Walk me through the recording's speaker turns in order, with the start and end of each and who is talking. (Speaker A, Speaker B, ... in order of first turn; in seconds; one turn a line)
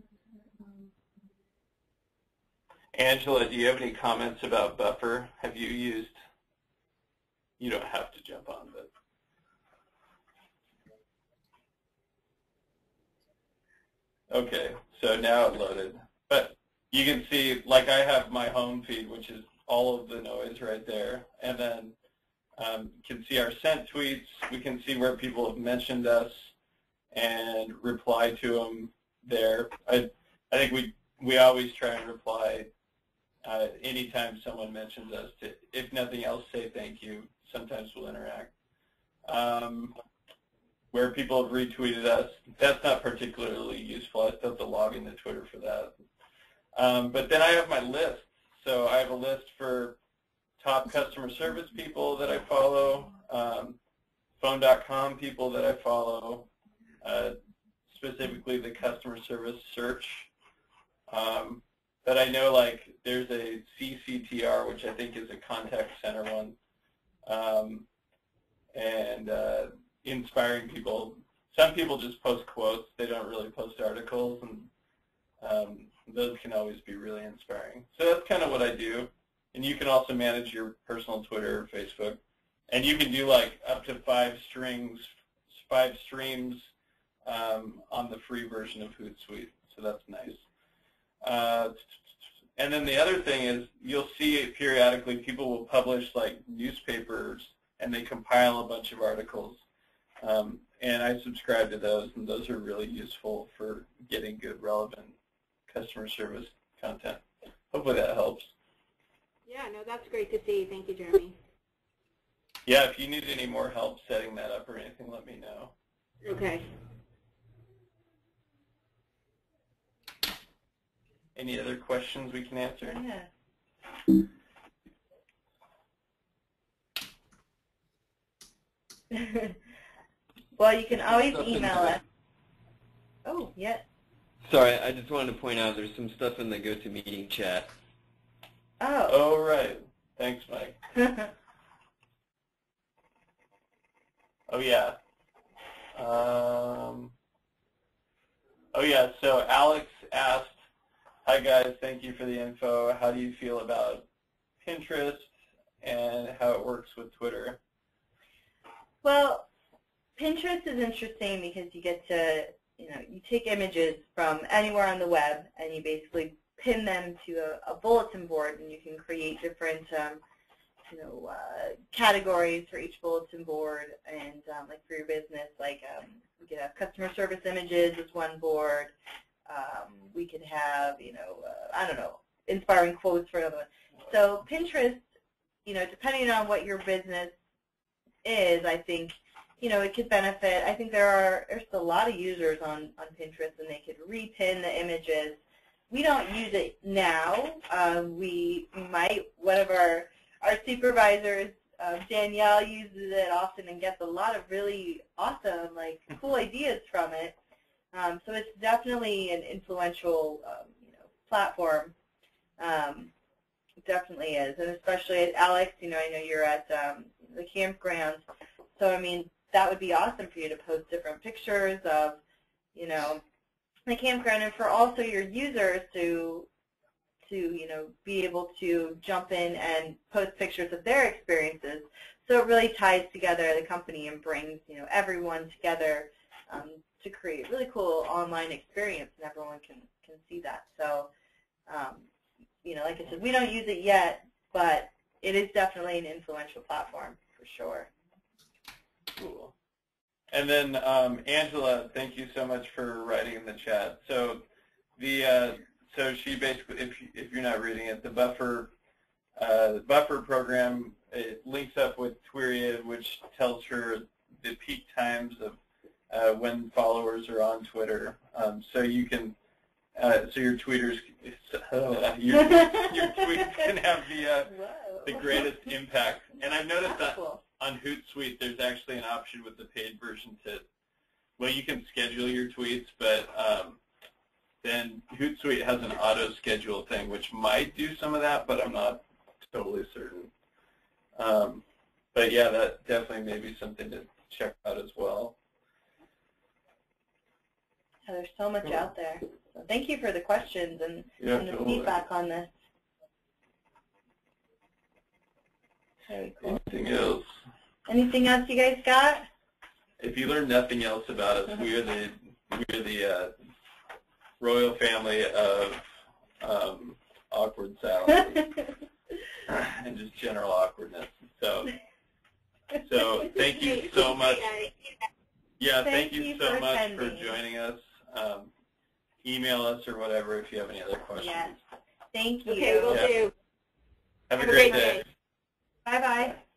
Speaker A: 2.9-6.1
Speaker A: 7.6-8.9
Speaker A: 14.3-21.9
Speaker A: 22.6-26.5
Speaker A: 27.1-32.7
Speaker A: 33.4-38.5
Speaker A: 39.2-39.9
Speaker A: 40.9-45.9
Speaker A: 46.7-50.0
Speaker A: 50.6-53.8
Speaker A: 54.4-56.5
Speaker A: 57.0-57.3
Speaker A: 57.9-60.3
Speaker A: 61.1-66.5
Speaker A: 67.2-67.8
Speaker A: 68.7-74.7
Speaker A: 75.4-86.7
Speaker A: 87.2-90.4
Speaker A: 91.2-92.0
Speaker A: 92.5-99.6
Speaker A: 100.2-105.1
Speaker A: 105.7-108.5
Speaker B: 109.5-111.3
Speaker A: 112.7-115.7
Speaker B: 116.2-116.7
Speaker A: 121.3-123.0
Speaker C: 122.8-123.3
Speaker C: 129.1-129.5
Speaker C: 130.6-132.0
Speaker D: 131.3-132.0
Speaker C: 133.2-133.8
Speaker D: 134.4-137.7
Speaker C: 138.8-139.2
Speaker A: 139.1-140.8
Speaker C: 140.9-141.3
Speaker A: 144.5-144.9
Speaker A: 145.9-147.1
Speaker A: 148.7-150.5
Speaker A: 151.2-154.1
Speaker A: 154.6-157.6
Speaker C: 159.0-159.5
Speaker C: 160.2-170.2
Speaker C: 170.9-178.9
Speaker C: 179.5-185.0
Speaker C: 185.6-187.3
Speaker C: 188.2-195.4
Speaker C: 195.9-207.3
Speaker C: 207.9-211.9
Speaker C: 212.6-213.1
Speaker C: 213.8-218.2
Speaker C: 218.8-222.2
Speaker C: 222.7-223.2
Speaker C: 223.9-226.5
Speaker C: 227.3-241.1
Speaker C: 241.7-242.1
Speaker C: 242.6-247.9
Speaker A: 249.1-249.5
Speaker A: 250.3-254.4
Speaker A: 255.0-258.7
Speaker A: 259.4-265.6
Speaker A: 266.1-269.3
Speaker A: 269.9-280.6
Speaker C: 272.4-273.2
Speaker C: 274.5-275.4
Speaker C: 276.8-277.4
Speaker A: 281.4-283.8
Speaker A: 284.6-290.3
Speaker A: 291.1-291.6
Speaker A: 292.1-295.3
Speaker C: 298.1-302.5
Speaker A: 301.2-301.9
Speaker C: 306.1-306.6
Speaker A: 306.4-307.2
Speaker C: 307.9-309.2
Speaker A: 310.0-313.3
Speaker A: 314.4-315.9
Speaker A: 316.4-318.4
Speaker A: 319.4-321.7
Speaker A: 322.8-324.5
Speaker B: 323.2-324.7
Speaker A: 325.6-328.5
Speaker C: 325.8-327.3
Speaker A: 329.2-331.6
Speaker C: 331.1-331.6
Speaker C: 332.1-333.0
Speaker B: 332.5-333.3
Speaker A: 332.9-333.1
Speaker A: 334.3-335.0
Speaker B: 334.4-335.0
Speaker C: 335.8-336.4